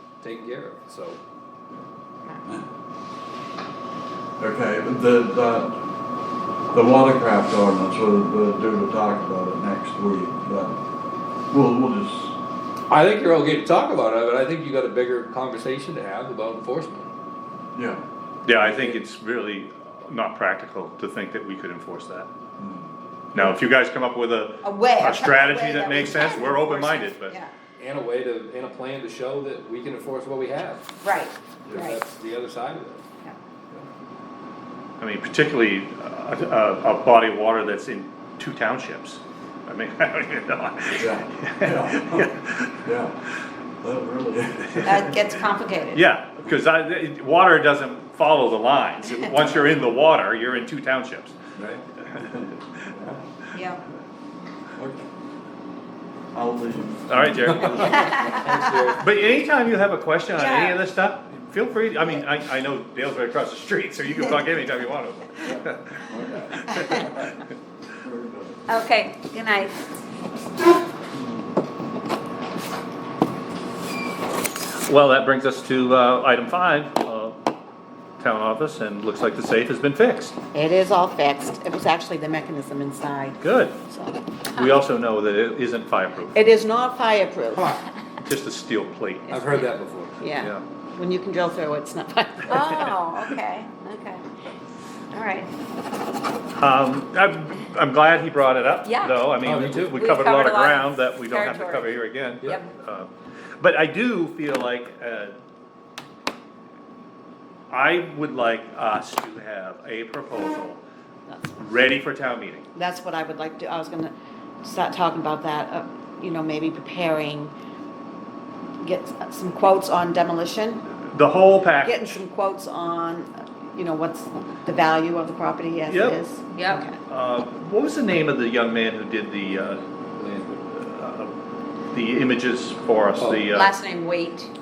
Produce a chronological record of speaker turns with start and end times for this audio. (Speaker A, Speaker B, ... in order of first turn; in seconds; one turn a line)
Speaker A: 0.2-1.2
Speaker B: 4.4-5.8
Speaker B: 6.7-10.8
Speaker B: 11.5-12.3
Speaker A: 12.9-17.1
Speaker B: 17.7-18.0
Speaker C: 18.4-22.3
Speaker A: 18.6-18.9
Speaker B: 22.6-22.9
Speaker C: 23.3-27.4
Speaker D: 24.6-27.5
Speaker A: 27.8-30.8
Speaker D: 31.0-32.0
Speaker A: 31.7-33.0
Speaker C: 35.0-42.8
Speaker B: 41.0-43.2
Speaker B: 43.8-45.1
Speaker C: 44.7-45.0
Speaker D: 44.8-46.0
Speaker C: 45.9-51.4
Speaker B: 51.6-53.2
Speaker D: 53.5-53.8
Speaker B: 54.8-55.0
Speaker B: 56.3-58.5
Speaker C: 57.1-58.0
Speaker A: 57.5-59.0
Speaker C: 59.0-67.2
Speaker D: 60.4-60.8
Speaker B: 66.1-67.2
Speaker B: 68.0-68.6
Speaker D: 68.7-69.8
Speaker C: 74.8-77.3
Speaker C: 78.2-80.3
Speaker E: 80.5-84.2
Speaker C: 83.4-83.8
Speaker C: 84.5-86.4
Speaker E: 86.3-87.7
Speaker C: 88.2-89.4
Speaker A: 89.3-90.3
Speaker E: 90.2-93.0
Speaker D: 92.5-94.2
Speaker D: 95.1-95.5
Speaker C: 96.6-103.1
Speaker D: 98.8-99.2
Speaker A: 99.4-100.0
Speaker D: 100.0-102.6
Speaker C: 103.6-105.3
Speaker C: 107.7-110.8
Speaker E: 111.3-111.5
Speaker C: 111.6-112.7
Speaker E: 112.7-117.5
Speaker E: 118.8-120.8
Speaker C: 121.0-122.2
Speaker E: 121.8-127.0
Speaker C: 125.9-126.2
Speaker D: 126.5-126.8
Speaker C: 127.1-129.8
Speaker A: 130.2-130.6
Speaker C: 130.7-131.3
Speaker C: 131.9-133.8
Speaker A: 133.2-133.5
Speaker D: 133.5-134.5